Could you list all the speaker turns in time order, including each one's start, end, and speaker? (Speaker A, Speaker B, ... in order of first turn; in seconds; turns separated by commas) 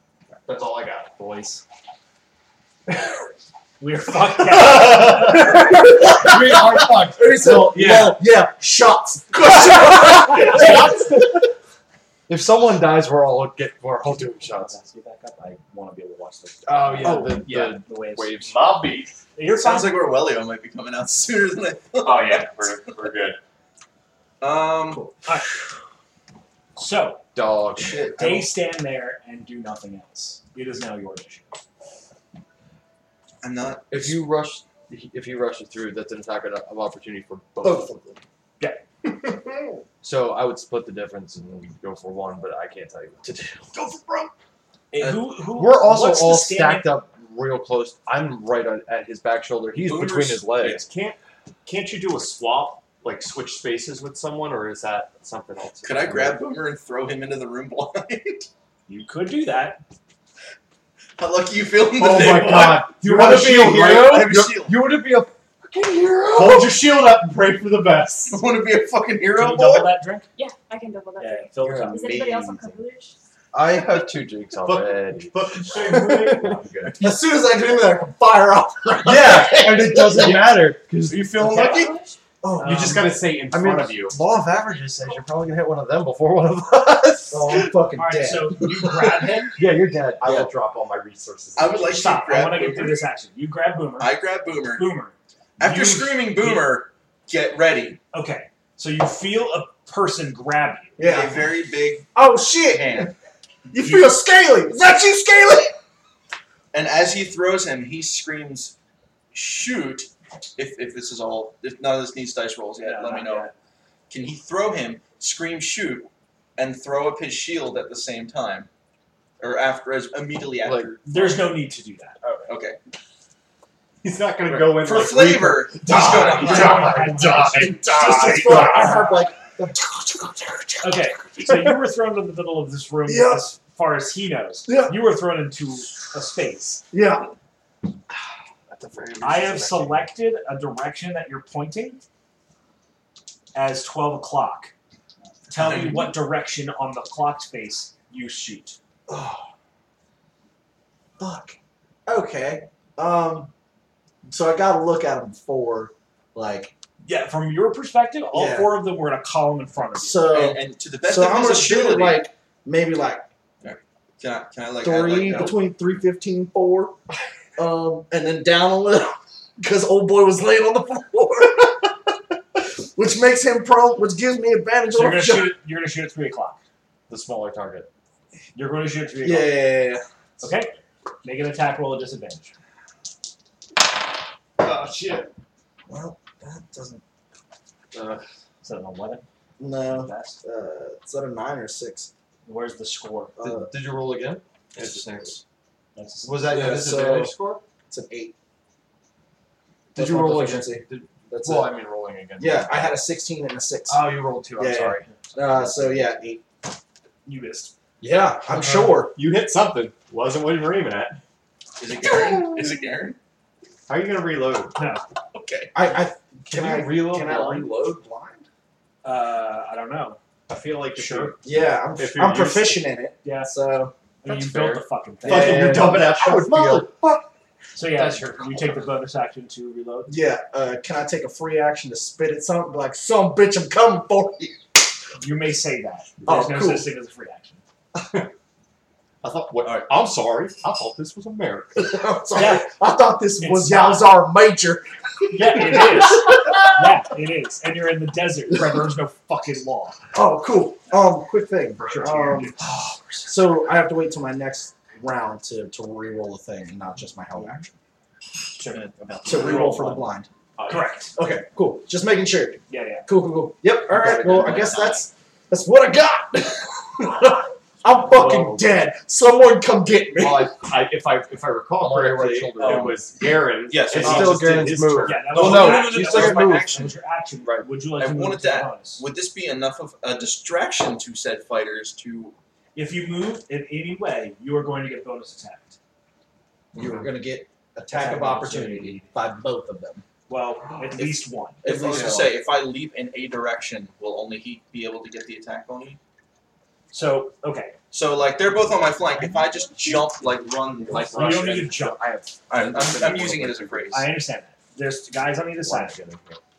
Speaker A: 0.5-1.6, Speaker B: 3.8-5.5, Speaker C: 4.9-8.2, Speaker D: 5.1-11.0, Speaker C: 10.0-11.4, Speaker C: 12.3-14.8, Speaker B: 14.4-18.4, Speaker C: 16.6-18.6, Speaker A: 17.0-17.8, Speaker A: 18.3-19.1, Speaker B: 19.3-20.1, Speaker E: 19.5-22.9, Speaker A: 22.0-23.4, Speaker E: 24.4-25.1, Speaker B: 26.8-27.2, Speaker C: 27.3-28.0, Speaker E: 27.8-28.5, Speaker B: 28.1-31.5, Speaker E: 33.4-34.2, Speaker C: 33.9-37.9, Speaker C: 40.0-43.7, Speaker B: 44.9-46.9, Speaker C: 45.5-50.8, Speaker E: 49.7-50.8, Speaker A: 50.7-56.5, Speaker E: 55.8-58.5, Speaker B: 58.9-59.8, Speaker E: 61.2-64.8, Speaker C: 62.0-66.7, Speaker A: 62.9-63.5, Speaker A: 66.3-68.4, Speaker E: 68.3-69.9, Speaker B: 69.3-70.3, Speaker F: 70.3-73.1, Speaker B: 71.2-72.8, Speaker C: 71.6-72.1, Speaker C: 73.5-76.6, Speaker A: 74.6-77.0, Speaker D: 77.0-80.7, Speaker C: 79.0-81.9, Speaker F: 81.7-82.2, Speaker D: 82.4-83.2, Speaker A: 82.6-84.2, Speaker C: 83.5-87.8, Speaker D: 87.3-89.4, Speaker B: 88.0-89.6, Speaker C: 89.6-90.5, Speaker A: 90.2-92.1, Speaker E: 91.5-93.0, Speaker B: 91.9-96.8, Speaker E: 94.0-94.9, Speaker E: 95.6-98.0, Speaker B: 98.1-101.0, Speaker D: 101.0-101.5, Speaker E: 101.0-102.1, Speaker D: 102.1-103.1, Speaker E: 102.7-103.1, Speaker D: 103.7-105.7, Speaker E: 106.7-108.7, Speaker E: 109.3-113.5, Speaker B: 112.8-113.5, Speaker E: 114.1-118.7, Speaker E: 119.4-121.5, Speaker C: 120.6-120.9, Speaker B: 121.1-122.2, Speaker E: 122.5-122.8, Speaker A: 124.0-129.0, Speaker E: 124.5-127.0, Speaker D: 125.8-131.5, Speaker B: 126.3-129.1, Speaker B: 130.8-136.8, Speaker D: 133.1-133.5, Speaker D: 134.7-135.0, Speaker D: 136.9-137.3, Speaker C: 138.7-140.1, Speaker B: 139.2-142.0, Speaker B: 143.5-144.7, Speaker B: 145.5-148.8, Speaker E: 145.6-146.1, Speaker D: 149.1-149.5, Speaker D: 151.2-153.5, Speaker D: 154.3-156.7, Speaker B: 157.0-160.3, Speaker D: 158.3-158.7, Speaker D: 159.9-163.2, Speaker E: 160.3-162.3, Speaker E: 163.6-165.7, Speaker D: 164.8-167.0, Speaker D: 167.6-175.6, Speaker B: 174.9-176.6, Speaker C: 177.1-177.9, Speaker B: 178.5-179.8, Speaker D: 179.2-180.0, Speaker B: 180.4-182.6, Speaker D: 185.9-187.0, Speaker C: 187.9-188.2, Speaker B: 188.6-189.2, Speaker D: 189.6-192.1, Speaker B: 189.9-190.4, Speaker B: 192.4-193.3, Speaker D: 193.3-193.7, Speaker C: 193.4-195.4, Speaker B: 195.9-196.6, Speaker C: 196.2-197.6, Speaker D: 196.4-197.4, Speaker D: 197.9-198.3, Speaker C: 199.9-203.1, Speaker D: 199.9-201.8, Speaker D: 202.4-206.4, Speaker C: 203.9-205.8, Speaker B: 207.2-207.7, Speaker D: 208.0-209.2, Speaker A: 209.1-211.2, Speaker E: 211.8-213.2, Speaker D: 212.2-212.6, Speaker A: 213.9-214.8, Speaker B: 214.7-215.0, Speaker E: 215.3-215.7, Speaker D: 215.7-218.5, Speaker A: 216.5-217.6, Speaker B: 219.0-220.2, Speaker A: 220.5-222.8, Speaker B: 220.9-221.4, Speaker D: 221.4-223.9, Speaker B: 223.2-223.5, Speaker B: 224.2-225.7, Speaker C: 224.2-226.9, Speaker D: 225.2-227.0, Speaker A: 225.3-227.0, Speaker B: 227.7-230.1, Speaker C: 227.9-228.9, Speaker D: 230.1-234.6, Speaker B: 235.2-237.6, Speaker D: 236.2-236.9, Speaker A: 239.2-241.9, Speaker E: 239.6-239.9, Speaker D: 241.8-246.7, Speaker B: 242.3-242.7, Speaker B: 243.4-244.1, Speaker B: 245.3-250.0, Speaker D: 250.1-252.6, Speaker B: 251.8-253.3, Speaker D: 253.2-257.7, Speaker B: 258.6-260.0, Speaker E: 258.6-260.0, Speaker D: 259.2-260.3, Speaker A: 260.6-260.9, Speaker B: 260.7-261.1, Speaker D: 261.1-270.7, Speaker B: 262.7-263.1, Speaker C: 263.8-264.9, Speaker E: 264.4-265.0, Speaker C: 268.2-268.6, Speaker A: 268.2-268.5, Speaker A: 270.2-275.3, Speaker C: 271.8-273.0, Speaker E: 272.6-274.8, Speaker C: 273.9-276.8, Speaker B: 275.0-279.0, Speaker E: 275.3-276.9, Speaker C: 277.4-277.7, Speaker E: 278.0-282.4, Speaker B: 282.7-285.8, Speaker D: 286.7-290.0, Speaker B: 287.9-289.1, Speaker B: 290.3-291.6, Speaker E: 291.0-296.0, Speaker D: 291.6-292.3, Speaker C: 291.7-292.3, Speaker B: 296.9-297.7, Speaker E: 297.9-301.6, Speaker C: 300.9-303.9, Speaker A: 300.9-301.8, Speaker B: 301.1-302.0, Speaker E: 302.5-304.1, Speaker B: 303.9-306.0, Speaker A: 305.7-306.4